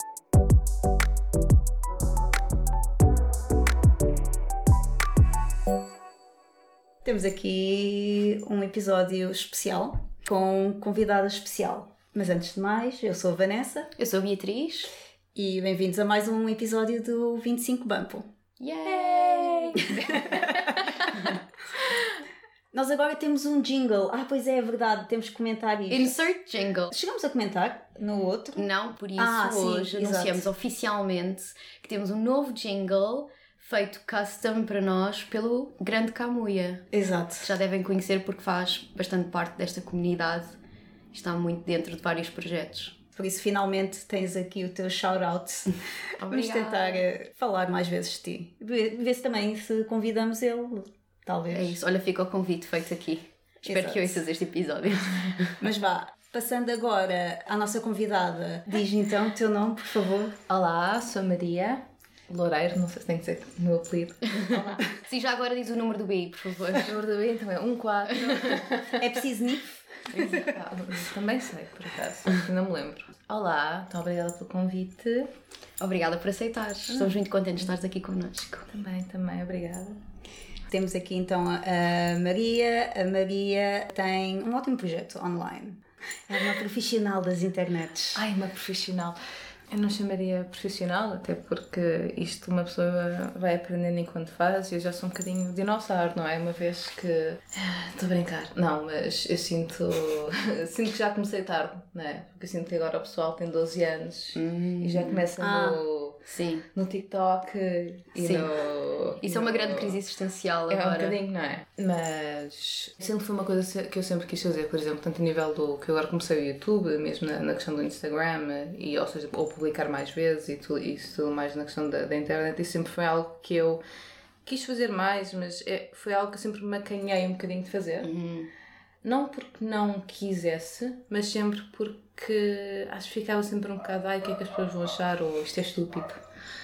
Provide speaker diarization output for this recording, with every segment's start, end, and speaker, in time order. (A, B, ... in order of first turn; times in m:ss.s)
0:07.0-0:13.9 A
0:14.0-0:14.9 B
0:15.4-0:18.3 A
0:18.6-0:20.2 B
0:18.9-0:21.1 C
0:22.7-0:26.3 A
0:25.9-0:27.0 B
0:26.9-0:28.7 A
0:28.6-0:36.9 B
0:29.2-0:30.5 A
0:36.9-0:37.5 A
0:37.4-0:40.6 B
0:41.1-0:43.0 B
0:43.2-0:51.8 A
0:46.2-0:47.0 B
0:51.5-0:55.6 B
0:53.7-0:54.1 A
0:55.6-1:00.4 A
1:00.5-1:04.9 C
1:04.9-1:06.9 B
1:06.8-1:09.0 C
1:09.0-1:10.4 A
1:10.1-1:15.3 C
1:15.8-1:18.7 B
1:16.9-1:17.2 C
1:18.7-1:20.0 C
1:20.7-1:28.2 A
1:28.2-1:29.2 C
1:29.7-1:46.2 C
1:44.4-1:45.3 B
1:45.4-1:45.8 A
1:46.2-1:46.6 B
1:46.7-1:50.0 C
1:48.2-1:48.5 B
1:49.2-1:51.2 B
1:50.7-2:03.8 C
2:04.4-2:08.1 C
2:08.0-2:08.5 B
2:09.0-2:16.2 C